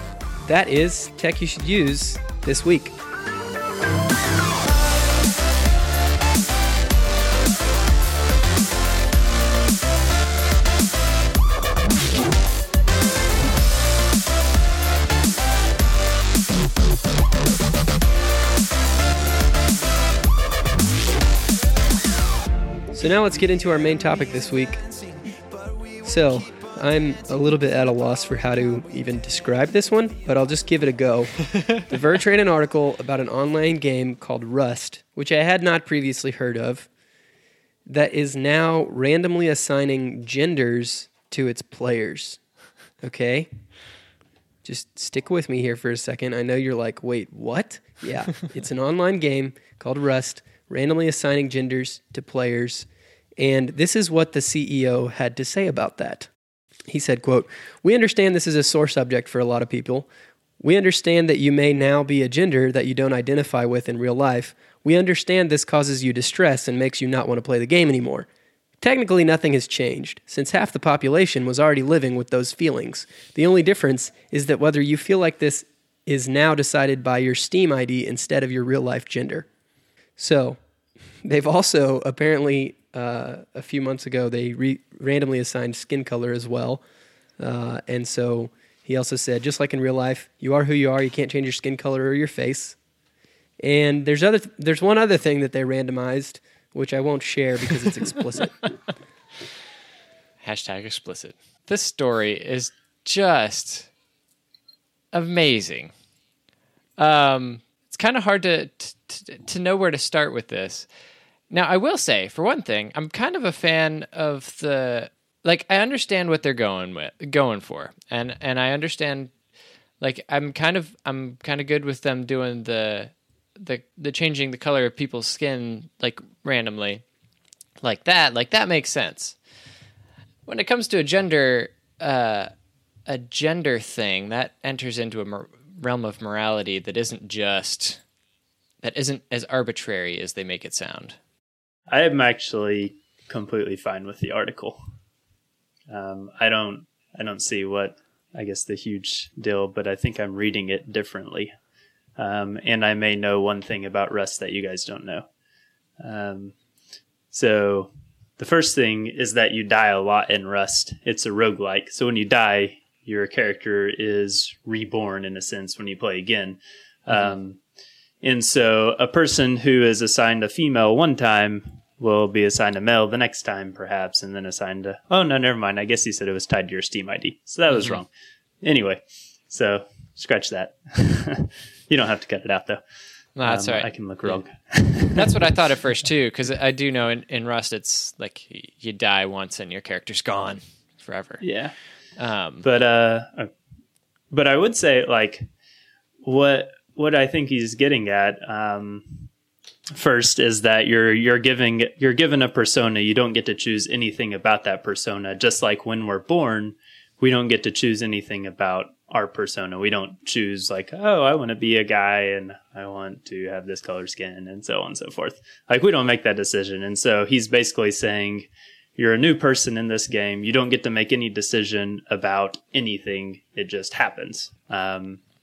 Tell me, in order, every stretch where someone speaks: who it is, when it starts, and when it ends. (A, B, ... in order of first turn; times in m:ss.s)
0:00.4-0:03.0 A
0:22.9-0:24.8 A
0:26.0-0:36.9 A
0:37.9-0:42.4 A
0:43.0-0:43.5 A
0:44.6-0:52.9 A
0:53.4-0:56.3 A
0:56.9-1:00.1 A
1:00.6-1:08.3 A
1:08.8-1:19.5 A
1:20.2-1:20.6 A
1:21.2-1:26.8 A
1:27.4-1:32.8 A
1:33.6-1:38.7 A
1:40.4-1:43.9 B
1:45.1-1:45.9 B
1:47.0-1:50.9 B
1:51.5-1:59.3 B
2:00.0-2:07.0 B
2:07.8-2:09.4 B
2:10.5-2:12.5 B
2:13.1-2:18.0 B
2:18.8-2:21.2 B
2:21.9-2:24.8 C
2:25.9-2:31.5 C
2:32.2-2:35.3 C
2:36.0-2:36.6 C
2:37.3-2:47.6 C
2:48.2-2:58.1 C
2:57.7-2:58.0 B
2:58.6-3:02.8 C
3:03.4-3:11.4 B
3:03.4-3:05.3 C
3:11.4-3:11.7 C
3:12.2-3:12.7 B
3:12.6-3:13.5 C
3:14.3-3:15.5 C
3:16.2-3:19.3 C
3:19.9-3:45.2 C